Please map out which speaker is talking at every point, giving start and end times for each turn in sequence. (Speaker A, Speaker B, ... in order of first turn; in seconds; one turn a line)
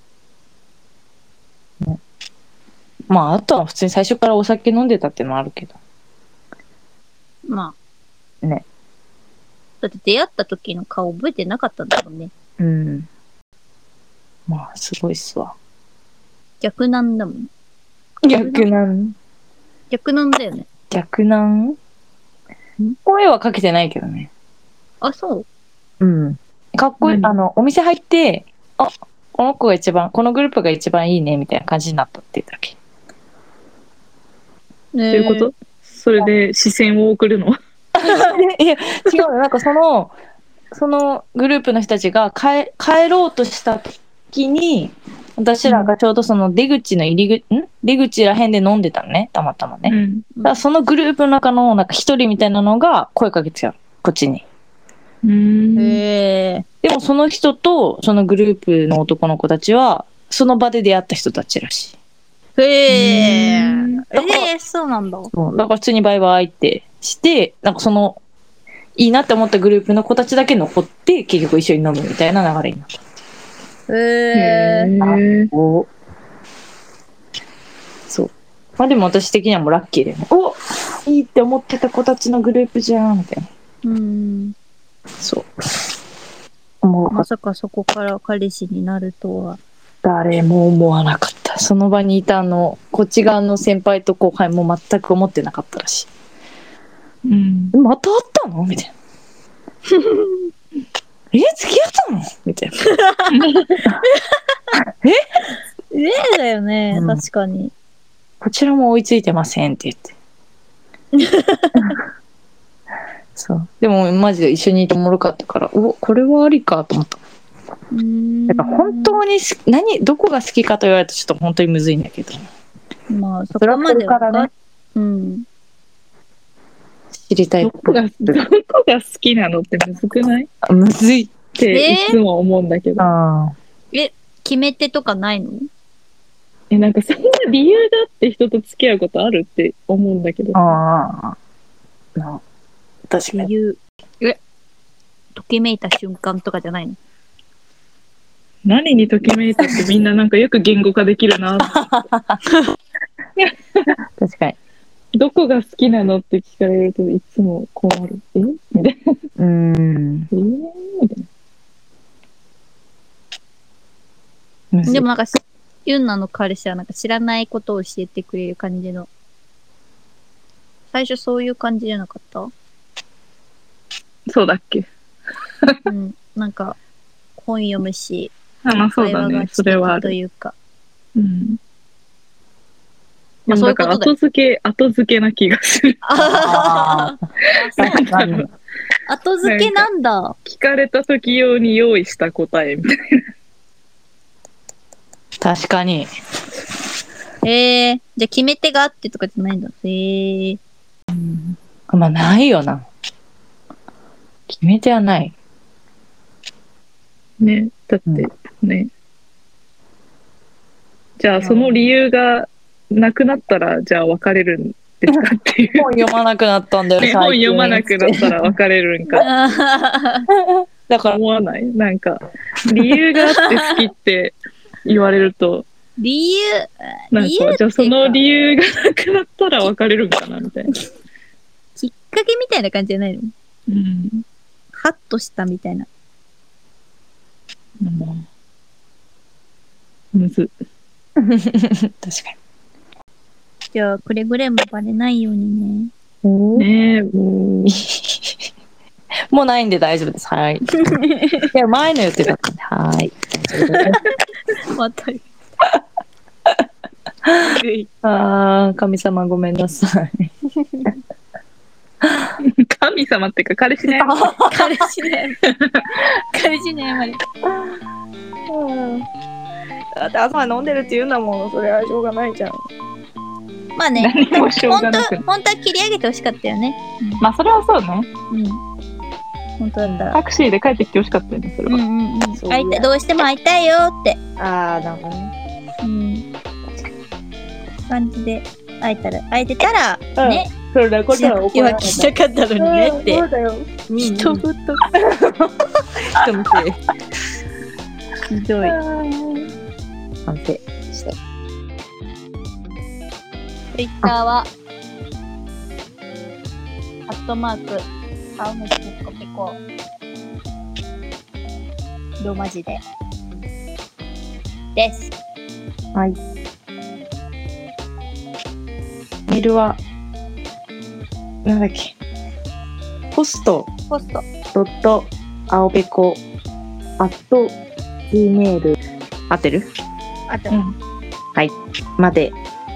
Speaker A: 3.1-5.8
Speaker B: 7.5-7.8
Speaker B: 9.8-12.3
Speaker A: 12.6-13.1
Speaker A: 14.5-15.5
Speaker B: 16.6-17.5
Speaker A: 18.2-19.1
Speaker B: 18.3-18.7
Speaker B: 19.9-20.7
Speaker A: 20.9-21.8
Speaker A: 23.0-24.3
Speaker B: 25.0-25.4
Speaker A: 26.0-32.8
Speaker C: 27.0-27.3
Speaker B: 34.9-35.5
Speaker C: 35.1-37.5
Speaker A: 37.9-40.1
Speaker B: 38.0-38.4
Speaker A: 40.7-54.4
Speaker C: 45.6-45.9
Speaker C: 49.9-50.3
Speaker B: 50.3-50.6
Speaker C: 55.2-56.0
Speaker B: 55.8-56.6
Speaker A: 56.8-62.0
Speaker B: 62.6-65.3
Speaker C: 62.9-64.0
Speaker A: 64.1-64.5
Speaker A: 65.3-68.2
Speaker A: 69.0-72.9
Speaker B: 73.9-74.9
Speaker C: 74.3-75.5
Speaker A: 75.0-75.9
Speaker A: 78.1-83.5
Speaker B: 83.8-84.5
Speaker A: 85.2-85.5
Speaker A: 86.8-87.3
Speaker B: 87.1-89.6
Speaker A: 90.0-96.1
Speaker C: 97.2-97.7
Speaker A: 97.7-98.9
Speaker B: 99.9-100.4
Speaker A: 101.3-102.8
Speaker B: 102.9-103.2
Speaker C: 103.3-103.8
Speaker B: 105.9-107.7
Speaker A: 106.9-107.2
Speaker A: 108.4-110.1
Speaker B: 111.2-112.0
Speaker A: 113.3-117.2
Speaker B: 117.9-119.2
Speaker A: 118.5-122.5
Speaker B: 123.1-125.4
Speaker A: 123.5-124.5
Speaker A: 127.2-128.4
Speaker C: 127.6-130.5
Speaker A: 130.6-131.3
Speaker C: 131.6-133.1
Speaker B: 131.7-132.2
Speaker A: 133.0-133.5
Speaker B: 133.9-135.7
Speaker C: 136.7-140.7
Speaker A: 140.5-141.3
Speaker A: 142.2-142.4
Speaker A: 143.1-143.5
Speaker B: 143.3-144.4
Speaker B: 145.3-147.0
Speaker C: 148.7-152.0
Speaker A: 151.6-152.4
Speaker C: 153.4-153.9
Speaker A: 154.2-154.6
Speaker C: 155.2-159.0
Speaker A: 159.4-160.3
Speaker C: 160.3-161.2
Speaker A: 164.7-165.1
Speaker B: 164.8-169.1
Speaker B: 170.9-172.5
Speaker C: 174.3-174.9
Speaker B: 175.8-176.8
Speaker B: 177.4-178.3
Speaker C: 178.6-180.1
Speaker B: 179.0-180.6
Speaker C: 181.2-181.6
Speaker B: 183.5-184.1
Speaker C: 183.5-186.0
Speaker B: 186.0-188.1
Speaker A: 186.2-187.2
Speaker C: 187.7-188.5
Speaker A: 187.8-188.5
Speaker B: 189.1-190.3
Speaker C: 189.4-189.9
Speaker C: 190.4-193.2
Speaker A: 195.4-196.1
Speaker B: 197.4-200.6
Speaker A: 201.1-202.9
Speaker A: 204.5-205.3
Speaker C: 207.4-208.9
Speaker C: 211.2-215.9
Speaker A: 211.4-211.7
Speaker A: 215.7-218.5
Speaker C: 217.0-219.3
Speaker B: 219.2-220.3
Speaker A: 220.3-221.2
Speaker C: 221.1-225.7
Speaker B: 226.0-228.2
Speaker C: 227.1-230.7
Speaker B: 231.8-233.3
Speaker C: 233.7-234.2
Speaker B: 234.7-235.9
Speaker C: 237.8-238.2
Speaker C: 240.1-240.5
Speaker A: 241.2-242.3
Speaker B: 243.7-245.9
Speaker A: 246.2-248.3
Speaker C: 246.6-247.1
Speaker A: 249.3-250.8
Speaker B: 250.8-251.5
Speaker A: 251.5-254.0
Speaker B: 253.6-255.2
Speaker A: 257.2-260.3
Speaker B: 257.4-257.9
Speaker C: 262.4-264.1
Speaker A: 263.9-264.9
Speaker B: 264.5-265.4
Speaker B: 266.3-267.2
Speaker A: 268.5-269.0
Speaker A: 269.9-272.6
Speaker B: 273.8-277.2
Speaker C: 274.0-275.2
Speaker C: 277.2-278.1
Speaker B: 278.3-278.6
Speaker B: 279.6-280.2
Speaker C: 279.9-281.8
Speaker B: 281.7-284.2
Speaker A: 282.3-282.9
Speaker A: 284.4-285.3
Speaker B: 285.8-286.3
Speaker B: 287.9-290.5
Speaker A: 290.1-296.8
Speaker B: 291.1-293.3
Speaker B: 293.9-294.8
Speaker B: 298.3-298.8
Speaker C: 298.9-299.3
Speaker A: 300.2-301.1
Speaker B: 303.7-304.5
Speaker B: 307.1-307.9
Speaker B: 308.4-309.6
Speaker B: 312.2-312.8
Speaker B: 314.7-315.1
Speaker A: 319.3-319.8
Speaker A: 321.4-321.9
Speaker A: 323.1-323.7
Speaker B: 323.9-324.2
Speaker A: 324.5-326.2
Speaker A: 327.0-327.6
Speaker A: 328.1-328.8
Speaker A: 329.3-329.7
Speaker B: 330.3-330.6
Speaker A: 331.3-332.4